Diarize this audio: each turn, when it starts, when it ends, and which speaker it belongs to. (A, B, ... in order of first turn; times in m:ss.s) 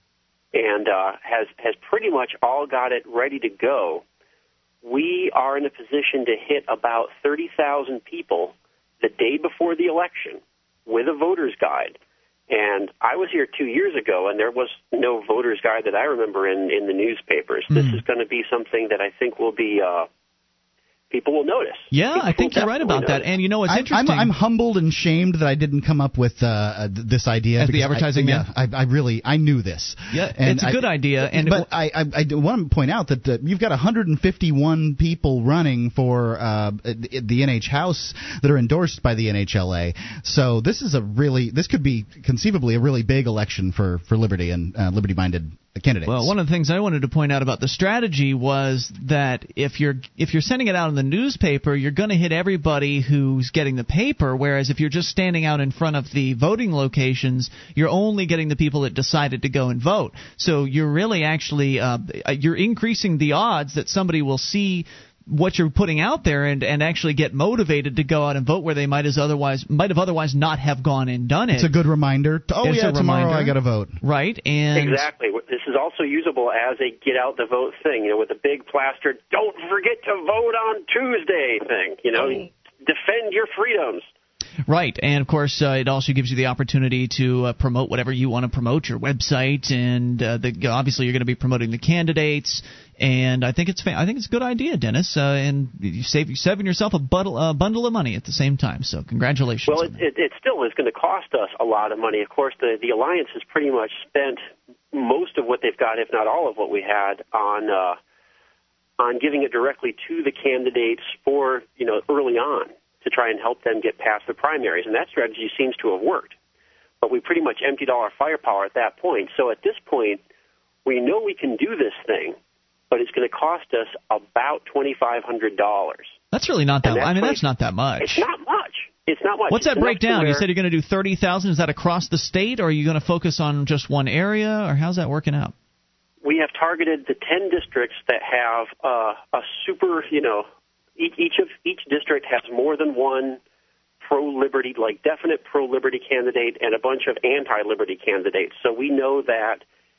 0:00.5-0:04.0 A
0:04.8-0:12.0 A
0:12.5-0:20.1 A
0:17.7-0:18.0 B
0:21.1-0:23.3 A
0:21.9-0:24.3 B
0:23.7-0:46.3 C
0:27.6-0:28.5 B
0:30.1-0:31.7 B
0:46.1-1:11.7 B
1:11.5-1:14.0 C
1:12.6-1:15.1 B
1:14.7-1:24.1 A
1:24.7-1:40.0 B
1:39.7-1:48.0 A
1:49.0-1:56.4 A
1:57.0-2:00.2 A
2:00.8-2:02.4 A
2:02.9-2:06.1 A
2:06.3-2:08.3 B
2:06.8-2:07.4 A
2:08.0-2:10.5 A
2:09.5-2:15.5 B
2:16.2-2:20.5 A
2:21.0-2:23.4 A
2:24.0-2:29.6 A